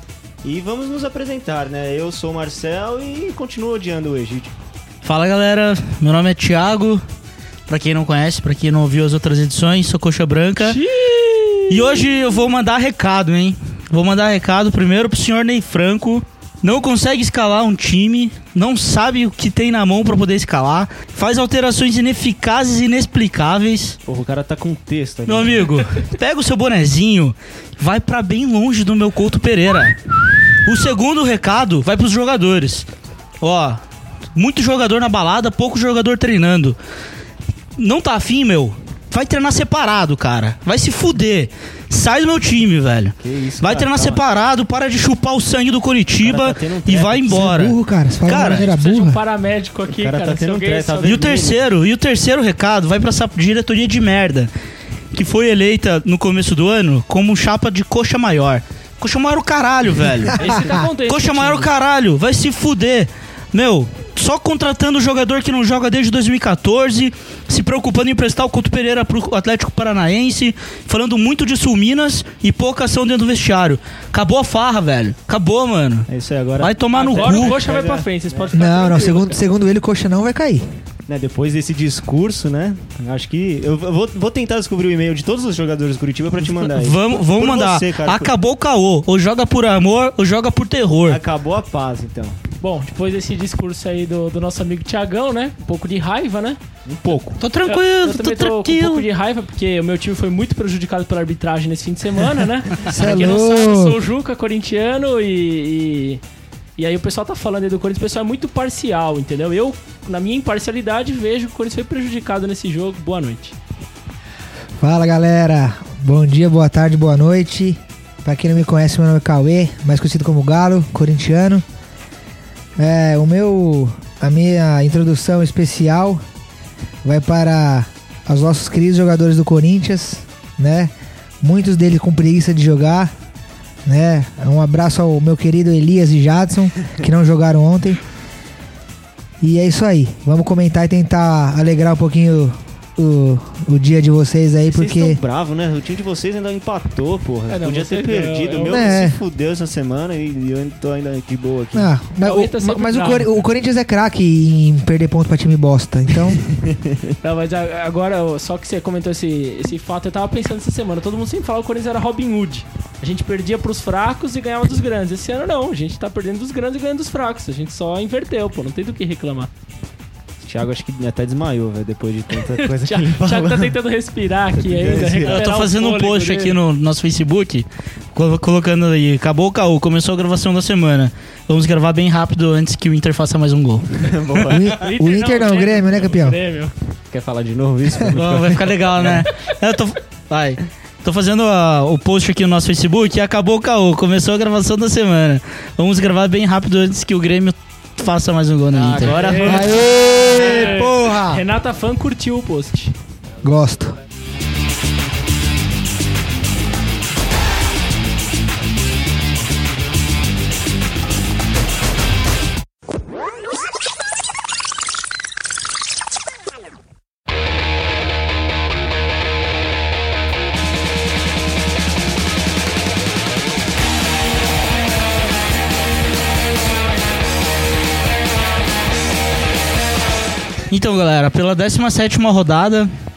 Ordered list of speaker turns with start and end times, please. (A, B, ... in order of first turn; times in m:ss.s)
0:00.4-0:04.5 A
0:05.0-0:07.0 B
0:07.7-0:10.8 B
0:10.6-0:12.4 C
0:11.7-0:24.0 B
0:24.0-0:25.8 A
0:25.3-0:30.0 B
0:30.6-0:32.9 B
0:33.4-0:33.8 B
0:34.3-0:36.8 B
0:37.8-0:48.7 B
0:43.2-0:44.2 A
0:46.2-0:47.5 A
0:47.3-0:49.2 D
0:48.5-0:51.2 C
0:49.9-0:51.6 A
0:51.0-0:54.5 B
0:55.1-1:16.1 B
1:00.4-1:01.7 C
1:00.5-1:00.8 D
1:16.1-1:18.6 A
1:16.6-1:17.6 B
1:16.9-1:19.4 C
1:18.5-1:20.6 D
1:21.1-1:28.3 A
1:26.4-1:31.2 B
1:31.0-1:32.4 A
1:32.6-1:36.6 C
1:36.8-1:37.4 A
1:37.4-1:39.1 B
1:37.6-1:46.2 C
1:42.8-1:44.0 D
1:46.8-1:53.6 C
1:54.8-2:01.6 D
2:02.8-2:06.2 D
2:07.0-2:13.1 D
2:13.8-2:18.0 D
2:19.4-2:25.2 D
2:24.7-2:31.9 A
2:27.5-2:29.0 C
2:28.6-2:29.2 D
2:31.8-2:36.4 D
2:32.2-2:33.3 C
2:36.6-2:37.1 A
2:37.2-2:49.5 C
2:50.4-2:53.8 A
2:52.4-2:56.6 C
2:54.6-2:55.4 A
2:55.2-3:04.1 B
3:04.0-3:04.8 A
3:04.5-3:06.4 D
3:04.7-3:06.7 C
3:07.1-3:09.3 A
3:08.2-3:19.2 B
3:18.7-3:20.8 A
3:19.0-3:22.9 C
3:19.4-3:21.4 D
3:23.4-3:23.9 D
3:50.7-3:52.9 B